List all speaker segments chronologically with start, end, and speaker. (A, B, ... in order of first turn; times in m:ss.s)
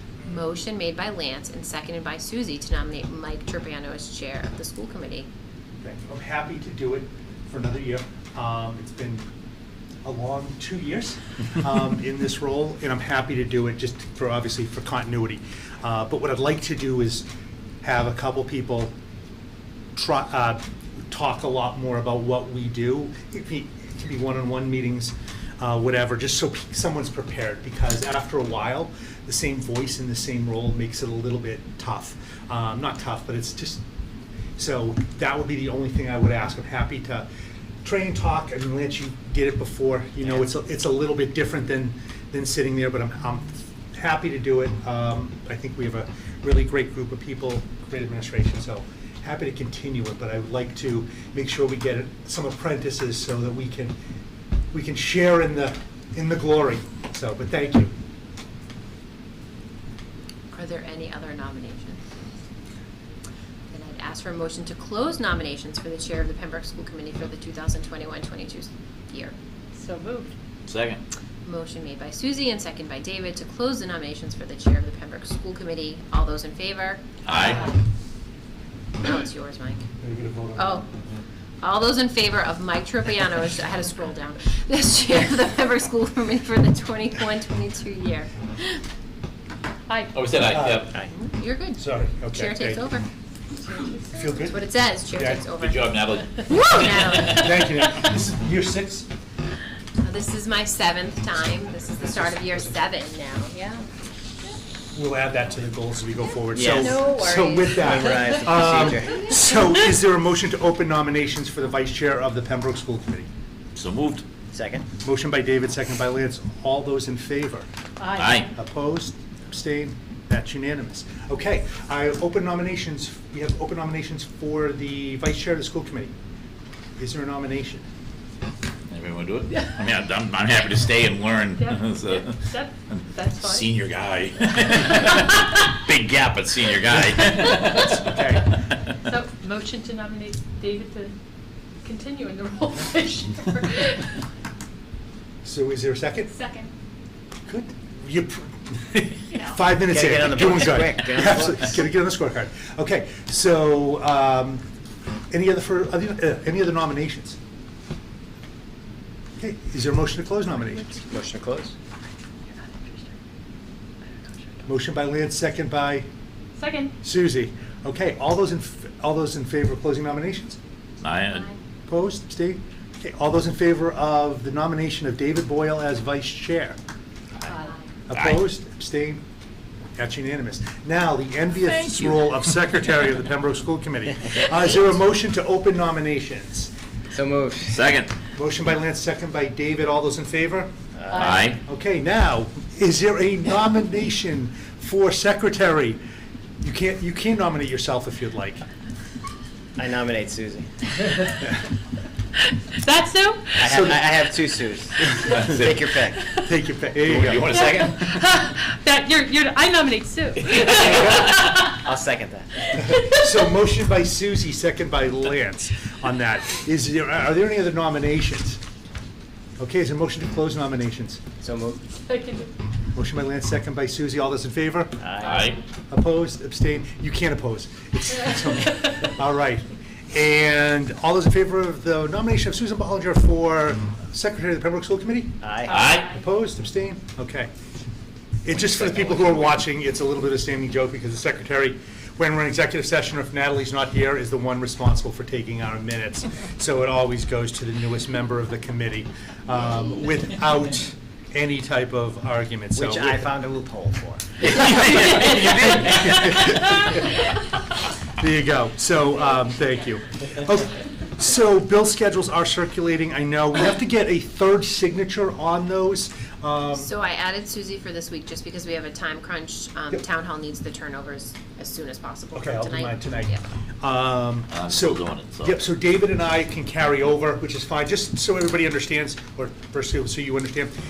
0:00.2-0:05.3 A
0:05.8-0:09.2 B
0:10.0-0:17.2 B
0:17.8-0:18.9 B
0:19.9-0:33.8 B
0:34.6-0:37.3 B
0:37.8-0:53.9 B
0:54.7-0:57.9 B
1:00.5-1:02.0 A
1:03.7-1:09.3 A
1:09.7-1:10.3 C
1:10.6-1:11.0 D
1:11.4-1:17.7 A
1:17.2-1:17.6 D
1:17.4-1:17.7 C
1:19.0-1:19.8 A
1:20.0-1:20.8 B
1:20.5-1:20.8 A
1:21.6-1:28.8 A
1:30.1-1:31.0 D
1:30.5-1:30.9 B
1:31.1-1:33.1 A
1:31.7-1:32.9 B
1:33.6-1:34.4 C
1:34.1-1:35.5 B
1:34.4-1:37.6 A
1:35.6-1:37.6 D
1:37.1-1:39.1 B
1:40.0-1:43.8 A
1:42.0-1:42.8 B
1:44.9-1:53.3 B
1:46.5-1:47.0 E
1:46.7-1:48.3 A
1:47.8-1:49.3 E
1:49.0-1:49.4 A
1:53.8-1:54.2 D
1:54.5-1:54.8 E
1:55.0-1:57.7 B
1:58.0-1:58.4 C
1:58.2-1:58.5 D
1:58.4-2:06.1 B
2:07.0-2:07.8 B
2:08.9-2:18.8 D
2:11.6-2:13.7 C
2:17.7-2:18.5 B
2:19.0-2:21.2 C
2:21.8-2:24.2 C
2:25.4-2:26.3 B
2:27.5-2:34.6 B
2:29.8-2:31.8 E
2:35.3-2:37.4 B
2:39.4-2:41.0 B
2:41.1-2:41.7 E
2:44.6-2:46.1 B
2:46.6-2:46.9 C
2:47.0-2:50.6 B
2:51.0-2:51.5 D
2:51.9-2:56.8 B
2:58.1-2:59.2 B
3:00.0-3:06.7 B
3:07.1-3:07.8 E
3:07.7-3:08.1 D
3:08.3-3:10.7 B
3:10.9-3:11.4 E
3:11.1-3:11.6 D
3:11.6-3:16.0 B
3:16.6-3:18.6 B
3:19.8-3:21.1 E
3:22.8-3:23.6 C
3:23.6-3:26.2 E
3:23.6-3:24.0 B
3:25.2-3:25.8 D
3:26.4-3:27.4 B
3:27.1-3:28.1 D
3:27.1-3:27.9 E
3:27.5-3:31.7 C
3:30.7-3:32.7 E
3:32.7-3:38.6 B
3:39.6-3:41.2 B
3:41.4-3:41.8 E
3:42.0-3:42.5 C
3:42.9-3:45.0 B
3:45.0-3:45.4 E
3:45.2-3:45.6 D
3:45.9-3:57.5 B
3:55.4-3:55.8 E
3:55.7-3:56.2 C
3:55.7-3:56.1 D
3:58.4-4:13.3 B
3:58.6-3:59.4 E
4:12.7-4:14.6 E
4:14.4-4:16.6 D
4:15.3-4:17.0 B
4:18.2-4:26.9 B
4:26.7-4:33.4 A
4:32.3-4:40.7 B
4:34.5-4:35.6 D